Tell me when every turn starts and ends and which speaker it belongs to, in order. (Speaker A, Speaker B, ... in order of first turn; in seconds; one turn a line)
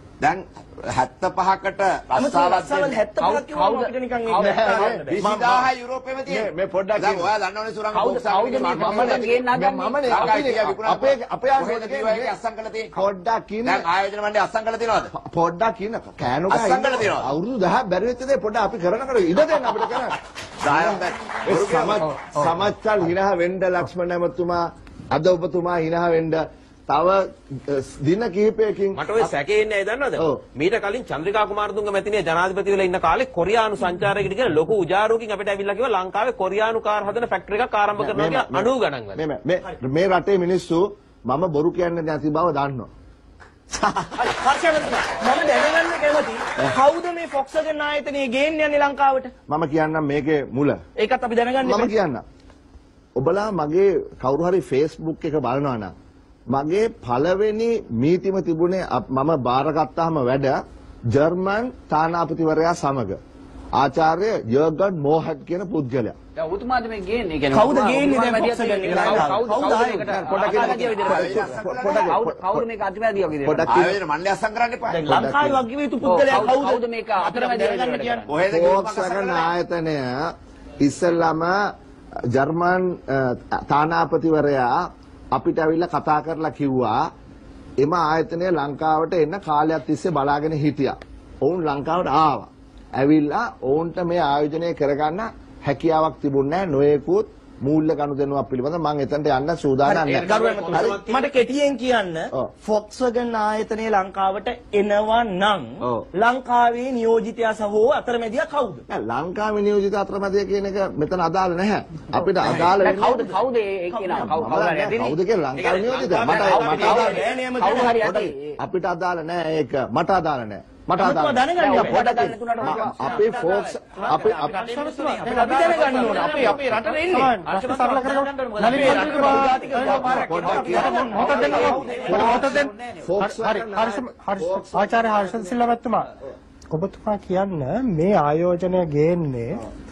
Speaker A: 0.2-3.0
Speaker B: 2.1-5.2
Speaker C: 3.1-4.9
Speaker D: 4.6-5.7
Speaker A: 5.1-9.4
Speaker D: 6.2-7.3
Speaker C: 7.9-10.5
Speaker D: 8.6-12.4
Speaker A: 10.0-12.9
Speaker D: 12.9-13.9
Speaker A: 13.6-15.1
Speaker D: 15.1-29.3
Speaker A: 16.5-17.3
Speaker A: 20.6-22.5
Speaker E: 28.9-39.2
Speaker D: 30.1-30.4
Speaker D: 38.0-42.9
Speaker B: 44.1-49.3
Speaker D: 49.5-50.8
Speaker B: 51.0-51.9
Speaker D: 51.6-52.2
Speaker D: 53.1-55.9
Speaker D: 56.5-60.6
Speaker D: 61.1-63.2
Speaker D: 63.8-66.2
Speaker C: 66.3-73.9
Speaker B: 67.5-70.8
Speaker D: 70.0-72.7
Speaker A: 70.4-72.2
Speaker D: 73.4-74.0
Speaker A: 73.7-75.0
Speaker B: 74.9-78.2
Speaker D: 75.0-75.6
Speaker C: 76.0-78.3
Speaker A: 78.2-79.5
Speaker D: 78.5-80.3
Speaker D: 80.8-81.5
Speaker D: 82.3-84.7
Speaker D: 85.3-87.0
Speaker D: 87.8-101.0
Speaker B: 99.8-108.8
Speaker E: 99.9-101.3
Speaker D: 108.9-113.3
Speaker B: 112.5-113.3
Speaker C: 112.8-115.2
Speaker B: 113.9-114.3
Speaker D: 114.1-117.2
Speaker E: 115.5-117.2
Speaker C: 116.2-118.5
Speaker B: 116.6-118.0
Speaker D: 118.0-124.6
Speaker B: 121.0-123.2
Speaker C: 121.5-125.4
Speaker B: 124.0-124.3
Speaker F: 124.5-136.1
Speaker B: 125.2-127.4
Speaker E: 125.6-126.1
Speaker C: 126.0-128.7
Speaker B: 128.6-132.6
Speaker E: 128.8-129.2
Speaker D: 130.1-130.9
Speaker D: 131.9-135.7
Speaker F: 136.7-139.6